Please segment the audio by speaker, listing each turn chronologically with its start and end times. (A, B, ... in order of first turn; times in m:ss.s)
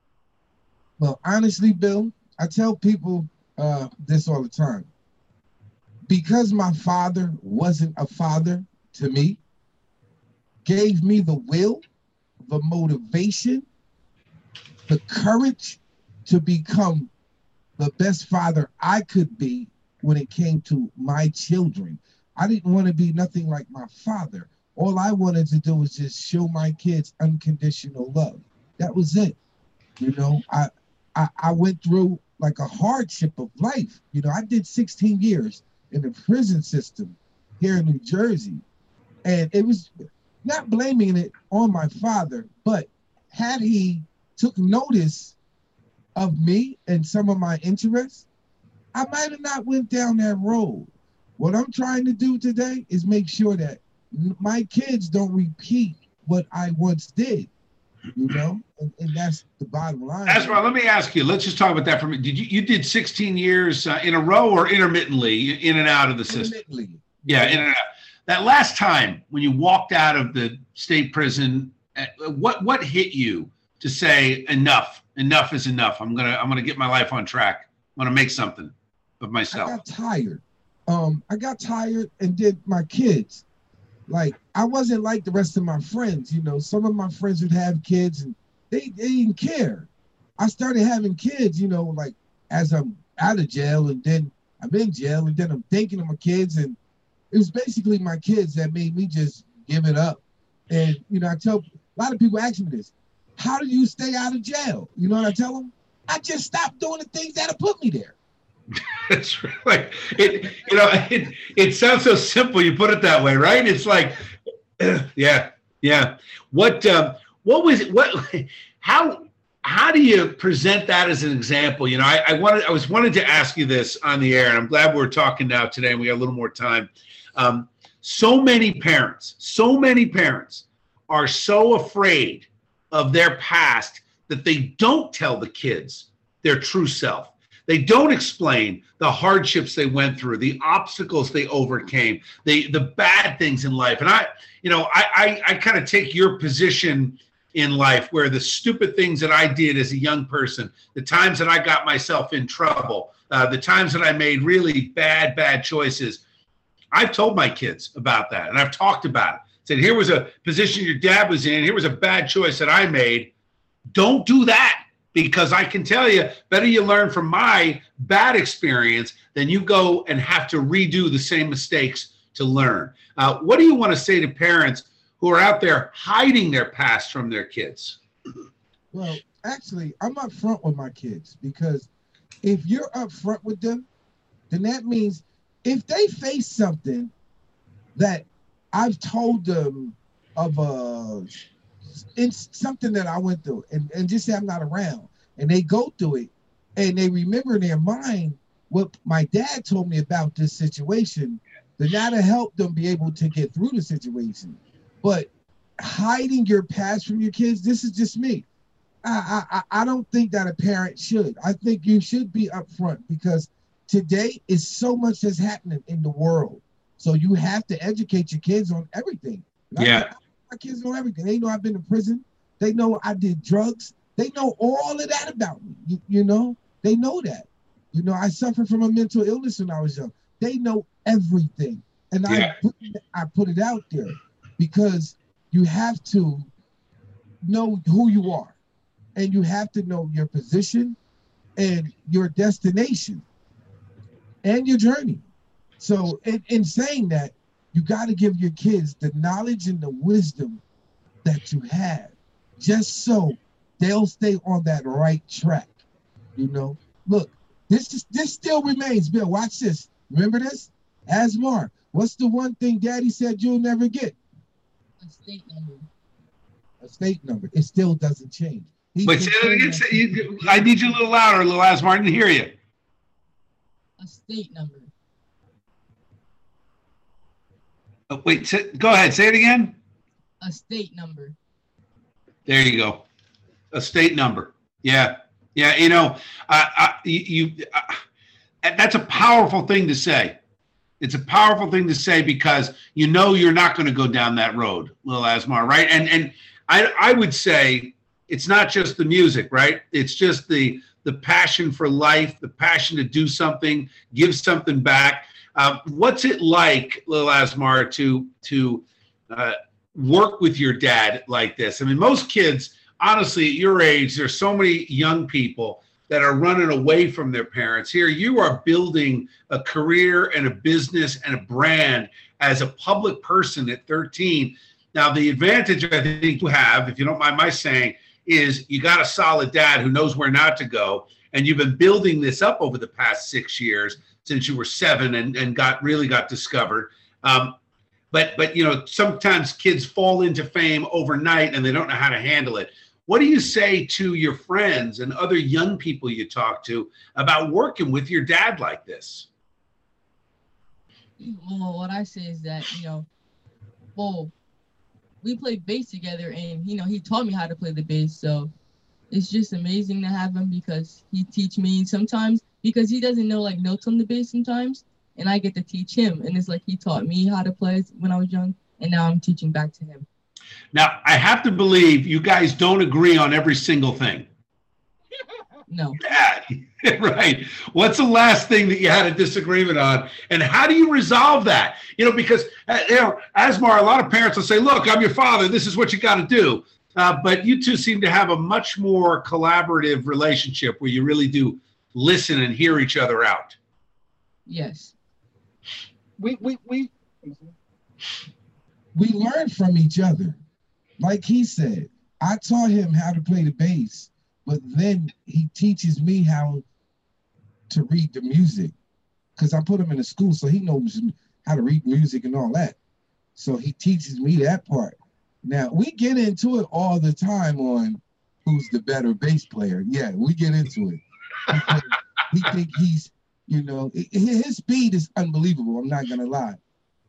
0:01.0-0:04.9 A
0:06.1-0:09.4 A
0:10.6-0:11.8 A
0:12.4-0:13.7 A
0:14.9-0:17.1 A
0:17.8-0:29.4 A
0:30.0-0:38.6 A
0:39.2-0:45.4 A
0:46.2-0:48.3 A
0:48.9-0:57.5 A
0:58.2-1:00.6 A
1:00.3-1:06.5 B
1:06.3-1:07.6 A
1:07.3-1:19.8 B
1:19.5-1:23.4 A
1:24.1-1:36.8 A
1:37.3-1:48.2 A
1:48.9-1:54.3 B
1:54.8-2:36.2 B
2:36.9-2:43.3 B
2:43.9-2:58.0 B
2:58.9-3:01.9 A
3:02.4-3:03.9 A
3:04.5-3:07.1 A
3:08.0-3:11.4 A
3:11.9-3:28.4 A
3:29.0-3:56.5 A
3:39.8-3:40.1 B
3:52.3-3:52.6 B
3:57.4-3:58.6 A
3:59.2-4:01.0 A
4:01.6-4:03.2 A
4:04.4-4:05.2 A
4:05.8-4:10.6 A
4:11.2-4:15.7 A
4:16.4-4:24.2 A
4:25.0-4:25.9 C
4:26.8-4:30.7 A
4:29.0-4:32.5 B
4:34.0-4:34.9 C
4:38.1-4:39.8 B
4:40.4-4:41.4 C
4:42.5-4:43.0 B
4:43.7-4:48.0 B
4:48.6-4:50.4 B
4:51.0-5:37.6 B
5:38.1-5:49.3 B
5:51.2-5:53.1 C
5:54.0-5:54.3 C
5:55.2-5:58.5 C
5:59.1-6:10.1 C
6:10.7-6:14.3 B
6:15.7-6:16.0 C
6:16.0-6:33.6 B
6:34.5-6:34.9 C
6:36.2-6:37.5 A
6:38.9-6:40.4 A
6:41.0-6:46.6 A
6:47.7-6:48.7 A
6:49.4-6:52.8 A
6:53.4-7:06.6 A